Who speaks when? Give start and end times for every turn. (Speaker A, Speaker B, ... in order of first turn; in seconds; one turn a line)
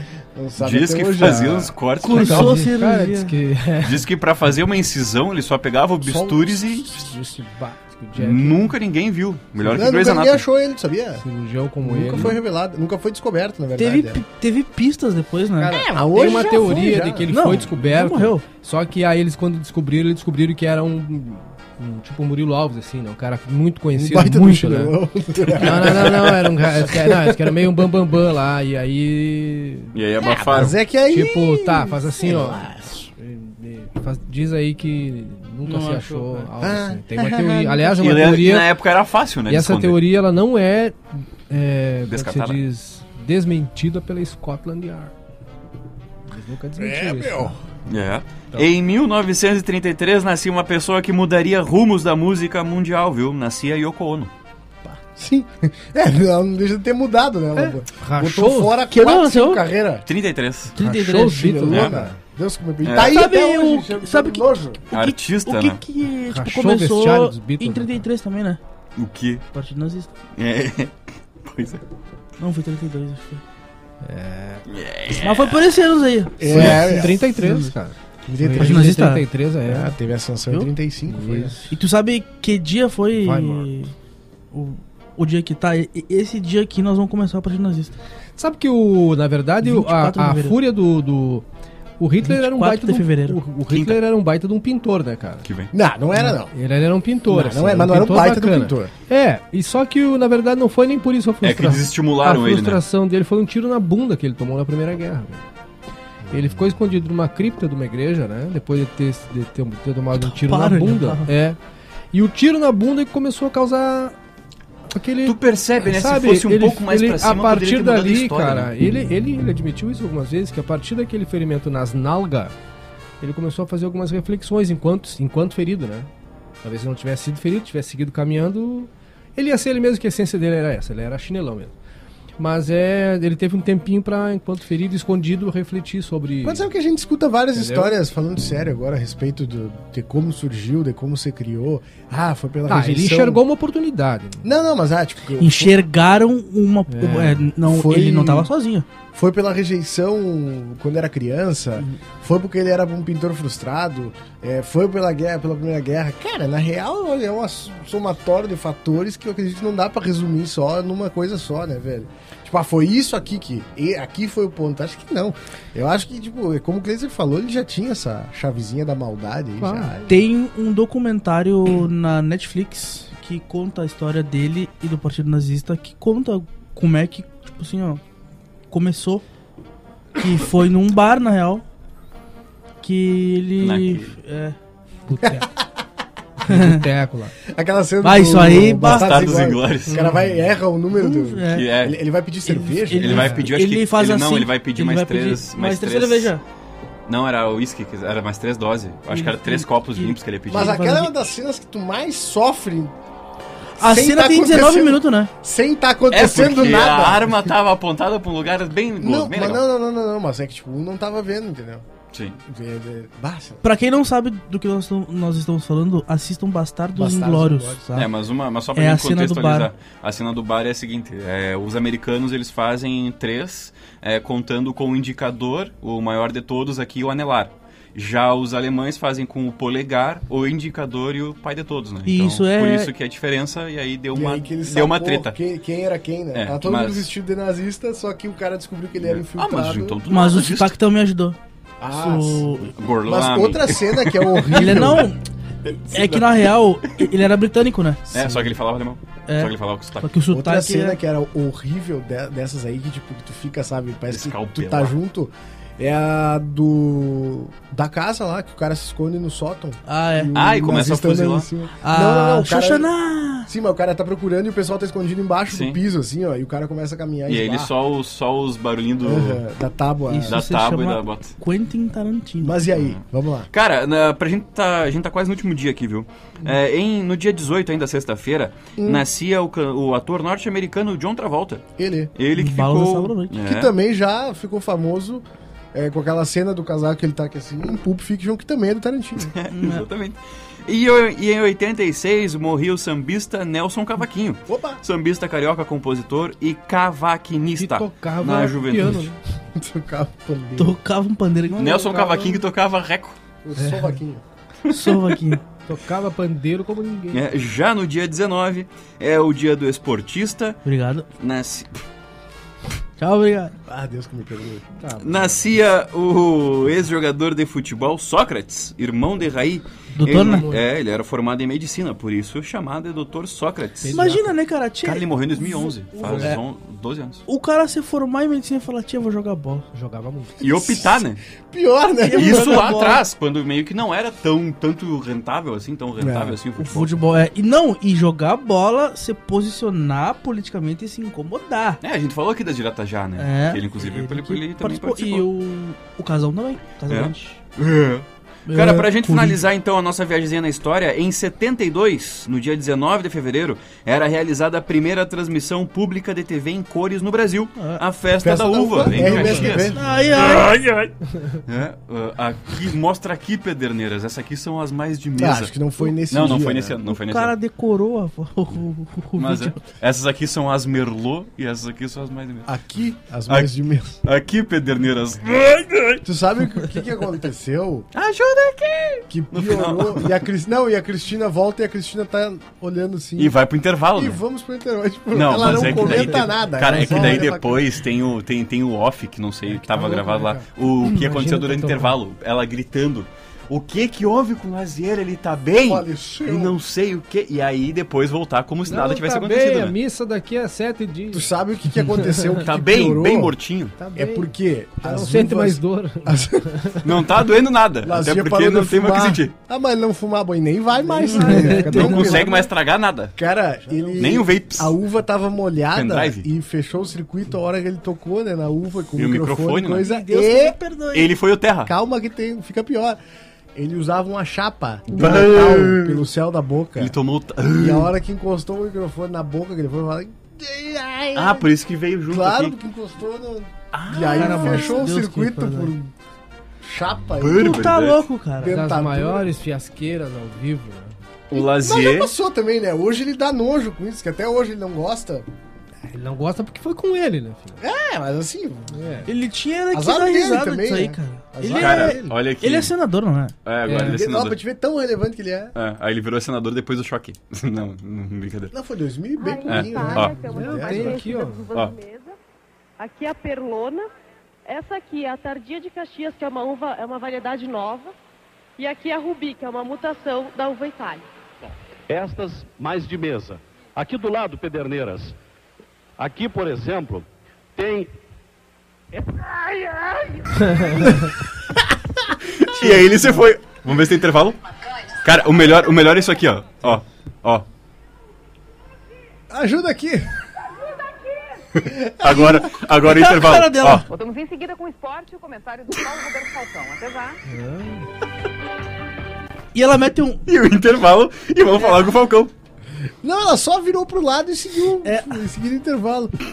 Speaker A: 0.3-1.7
Speaker B: 0.6-2.6
Speaker C: 1.2-4.1
Speaker D: 2.0-3.4
Speaker B: 3.8-6.9
Speaker A: 6.0-7.3
Speaker C: 6.9-8.7
Speaker B: 8.1-10.4
Speaker A: 9.6-11.2
Speaker C: 11.2-12.3
Speaker A: 11.8-14.2
Speaker D: 13.8-15.8
Speaker C: 15.6-29.9
Speaker A: 15.7-17.3
Speaker D: 17.3-18.4
Speaker A: 23.9-27.6
Speaker B: 29.9-30.7
Speaker A: 30.2-33.0
Speaker C: 30.7-38.7
Speaker D: 35.6-36.5
Speaker A: 36.6-38.0
Speaker B: 37.9-40.0
Speaker C: 39.5-45.1
Speaker B: 42.1-42.6
Speaker C: 46.3-47.6
Speaker A: 46.8-47.6
Speaker B: 47.9-54.3
Speaker A: 54.8-60.1
Speaker C: 57.6-58.8
Speaker D: 58.9-59.6
Speaker B: 60.0-60.7
Speaker C: 60.7-62.1
Speaker D: 60.8-61.7
Speaker A: 61.4-64.8
Speaker B: 62.8-63.1
Speaker D: 62.9-68.6
Speaker B: 64.9-65.8
Speaker C: 66.3-68.0
Speaker B: 69.0-69.4
Speaker D: 69.5-70.1
Speaker B: 70.3-71.8
Speaker D: 72.4-73.4
Speaker C: 74.0-74.6
Speaker B: 74.7-75.7
Speaker D: 75.1-77.7
Speaker A: 76.4-77.2
Speaker C: 76.5-79.9
Speaker B: 76.5-76.8
Speaker A: 78.2-79.0
Speaker D: 78.5-79.2
Speaker A: 79.6-81.6
Speaker C: 81.1-81.7
Speaker D: 81.7-83.9
Speaker C: 83.2-83.7
Speaker D: 84.5-87.9
Speaker C: 88.4-91.5
Speaker D: 89.6-90.5
Speaker C: 92.0-95.5
Speaker D: 92.2-93.4
Speaker B: 93.7-94.0
Speaker B: 95.4-95.7
Speaker A: 95.7-96.5
Speaker C: 96.1-105.4
Speaker A: 97.3-98.9
Speaker B: 101.4-102.8
Speaker A: 106.2-106.7
Speaker C: 106.3-111.6
Speaker D: 110.1-111.3
Speaker C: 112.1-114.1
Speaker C: 114.9-122.5
Speaker B: 115.2-118.7
Speaker C: 123.2-126.1
Speaker C: 126.6-131.7
Speaker C: 132.4-136.7
Speaker A: 136.4-143.4
Speaker C: 137.5-137.9
Speaker C: 142.7-144.4
Speaker A: 144.4-145.8
Speaker D: 145.4-148.8
Speaker C: 146.9-147.5
Speaker A: 147.6-148.5
Speaker A: 149.1-170.2
Speaker C: 169.6-169.9
Speaker D: 170.1-178.0
Speaker D: 178.7-179.2
Speaker D: 180.1-181.6
Speaker D: 182.8-184.6
Speaker B: 183.6-184.1
Speaker C: 185.1-185.5
Speaker A: 185.2-185.5
Speaker C: 186.4-187.3
Speaker D: 186.5-186.8
Speaker A: 187.4-193.3
Speaker D: 188.0-189.1
Speaker B: 188.9-190.0
Speaker C: 189.9-190.2
Speaker D: 190.9-191.7
Speaker B: 191.5-192.0
Speaker D: 192.4-196.4
Speaker B: 192.9-196.3
Speaker C: 193.1-193.4
Speaker B: 197.1-200.8
Speaker D: 199.1-201.1
Speaker A: 200.5-202.9
Speaker D: 203.8-205.3
Speaker A: 203.8-207.5
Speaker B: 206.1-209.6
Speaker A: 209.0-211.8
Speaker B: 212.1-212.4
Speaker A: 212.4-213.6
Speaker D: 213.6-218.1
Speaker A: 216.9-217.8
Speaker B: 217.9-235.3
Speaker D: 218.7-219.7
Speaker D: 232.1-232.9
Speaker A: 234.1-240.0
Speaker B: 236.3-237.1
Speaker B: 239.0-240.8
Speaker D: 240.1-241.4
Speaker A: 241.8-245.1
Speaker D: 241.9-242.7
Speaker B: 242.7-245.0
Speaker D: 244.5-245.2
Speaker B: 245.6-247.1
Speaker D: 245.9-248.0
Speaker B: 248.1-250.1
Speaker A: 248.1-248.4
Speaker D: 249.3-251.0
Speaker A: 250.3-262.9
Speaker B: 254.1-254.9
Speaker D: 259.9-260.3
Speaker B: 260.3-261.5
Speaker D: 261.8-263.5
Speaker A: 263.5-267.7
Speaker B: 265.5-265.8
Speaker B: 267.3-269.4
Speaker A: 269.0-270.4
Speaker D: 270.1-272.6
Speaker B: 270.3-271.3
Speaker A: 272.4-273.5
Speaker B: 272.7-283.7
Speaker A: 278.8-279.1
Speaker A: 281.8-282.1
Speaker D: 282.3-283.4
Speaker A: 283.4-289.3
Speaker B: 289.3-299.1
Speaker D: 289.5-289.9
Speaker A: 294.5-294.8
Speaker C: 297.6-299.2
Speaker A: 299.5-300.8
Speaker D: 300.6-301.7
Speaker C: 301.5-302.4
Speaker B: 301.6-303.2
Speaker A: 303.4-304.2
Speaker C: 303.6-303.9
Speaker B: 304.6-305.1
Speaker D: 304.7-305.4
Speaker C: 305.6-307.2
Speaker B: 307.1-310.6
Speaker D: 310.6-311.1
Speaker B: 311.2-311.8
Speaker D: 313.0-313.5
Speaker A: 313.7-314.7
Speaker C: 314.8-315.4
Speaker B: 315.0-324.0
Speaker D: 320.0-320.5
Speaker C: 320.0-320.6
Speaker C: 323.8-324.3
Speaker D: 323.9-326.4
Speaker B: 324.8-327.2
Speaker D: 327.3-329.7
Speaker C: 329.7-330.4
Speaker B: 330.4-331.2
Speaker A: 330.5-332.8
Speaker D: 332.0-333.0
Speaker B: 332.1-337.0
Speaker A: 336.0-336.4
Speaker D: 336.6-341.8
Speaker B: 341.8-345.2
Speaker D: 343.2-347.4
Speaker B: 346.9-360.9
Speaker D: 348.5-349.4
Speaker A: 358.2-359.8
Speaker C: 359.0-359.4
Speaker D: 359.3-360.5
Speaker B: 361.4-365.5
Speaker A: 365.2-366.8
Speaker B: 366.1-367.3
Speaker D: 366.8-369.6
Speaker B: 369.1-372.5
Speaker A: 372.4-374.0
Speaker B: 374.0-376.0
Speaker A: 376.0-377.9
Speaker B: 377.9-380.2
Speaker A: 379.1-383.4
Speaker B: 383.2-384.2
Speaker A: 383.9-387.7
Speaker B: 385.1-399.7
Speaker D: 385.7-386.1
Speaker C: 389.5-391.9
Speaker A: 395.6-396.6
Speaker C: 398.7-401.3
Speaker A: 401.1-403.4
Speaker B: 402.4-403.7
Speaker C: 403.8-404.2
Speaker A: 403.9-406.7
Speaker C: 404.8-406.8
Speaker B: 406.8-409.3
Speaker A: 407.8-412.5
Speaker C: 410.9-412.2
Speaker D: 411.1-412.2
Speaker B: 411.5-413.1
Speaker A: 413.2-420.6
Speaker C: 413.6-414.0
Speaker B: 414.0-414.7
Speaker B: 415.7-416.3
Speaker B: 418.9-419.9
Speaker D: 419.8-421.1
Speaker B: 420.9-421.7
Speaker A: 421.6-423.0
Speaker A: 423.5-426.9
Speaker B: 424.9-426.0
Speaker B: 426.8-427.9
Speaker A: 427.6-431.5
Speaker B: 431.1-432.5
Speaker A: 432.1-435.9
Speaker B: 433.7-434.8
Speaker D: 434.1-435.7
Speaker A: 436.6-437.8
Speaker B: 437.1-438.0
Speaker D: 437.3-438.6
Speaker A: 438.4-439.2
Speaker C: 438.5-440.9
Speaker B: 441.3-442.1
Speaker A: 441.3-445.3
Speaker C: 445.9-447.6
Speaker A: 447.6-448.8
Speaker C: 448.7-449.1
Speaker D: 449.1-453.3
Speaker A: 449.7-452.2
Speaker B: 451.5-452.7
Speaker B: 453.4-454.4
Speaker C: 453.7-454.0
Speaker A: 453.8-455.5
Speaker B: 455.5-458.5
Speaker A: 458.5-461.2
Speaker E: 459.2-462.1
Speaker B: 459.5-460.2
Speaker C: 460.2-461.5
Speaker E: 462.8-463.9
Speaker E: 464.4-467.9
Speaker E: 468.6-471.1
Speaker F: 471.9-475.1
Speaker F: 476.0-477.9
Speaker F: 478.9-480.4
Speaker B: 482.3-484.4
Speaker A: 482.6-482.9
Speaker B: 485.0-487.4
Speaker A: 489.3-490.1
Speaker B: 491.5-493.9
Speaker A: 491.7-492.5
Speaker D: 492.8-493.9
Speaker G: 493.9-497.1
Speaker C: 497.3-497.8
Speaker D: 499.5-500.2
Speaker B: 500.2-502.3
Speaker A: 503.0-506.2
Speaker D: 504.8-505.2